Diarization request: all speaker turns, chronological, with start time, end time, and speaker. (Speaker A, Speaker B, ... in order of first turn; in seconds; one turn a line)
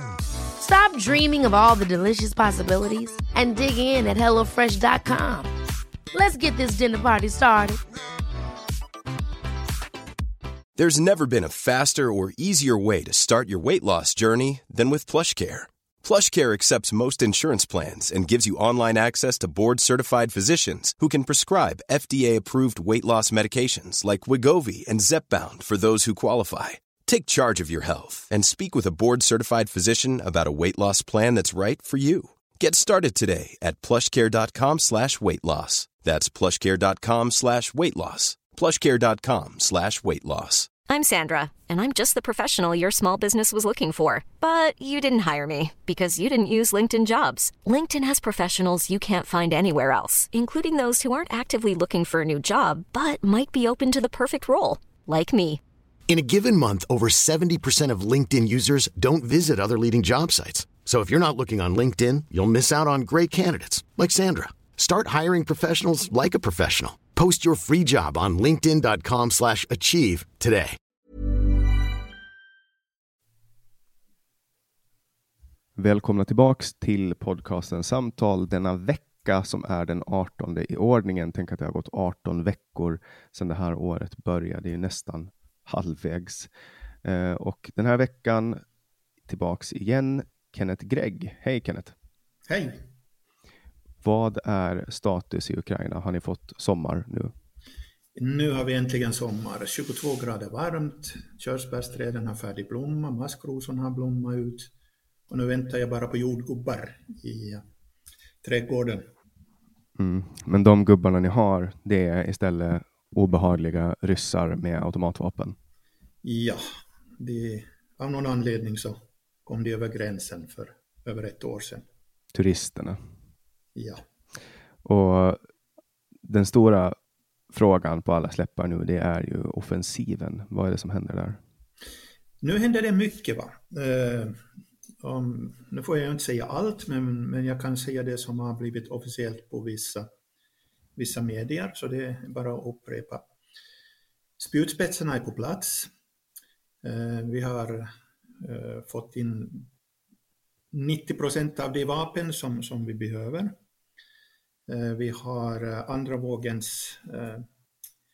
Speaker A: 0.6-5.5
Speaker A: 6.1-7.8
Speaker B: 10.8-40.7
Speaker C: 40.9-55.6
Speaker D: 56.1-70.8
Speaker E: 75.8-86.5
Speaker E: 87.0-88.6
Speaker E: 89.2-91.9
Speaker F: 92.5-92.9
Speaker E: 94.0-97.3
Speaker F: 98.2-104.7
Speaker F: 105.3-107.6
Speaker F: 108.4-109.1
Speaker E: 110.0-115.5
Speaker F: 116.2-116.6
Speaker F: 117.2-121.8
Speaker E: 122.3-123.0
Speaker F: 123.7-124.0
Speaker E: 124.8-125.4
Speaker E: 126.2-127.0
Speaker E: 127.5-131.4
Speaker F: 132.4-134.4
Speaker F: 135.0-140.1
Speaker F: 140.9-143.2
Speaker F: 144.4-145.9
Speaker F: 146.8-149.7
Speaker F: 150.7-153.5
Speaker F: 154.7-157.4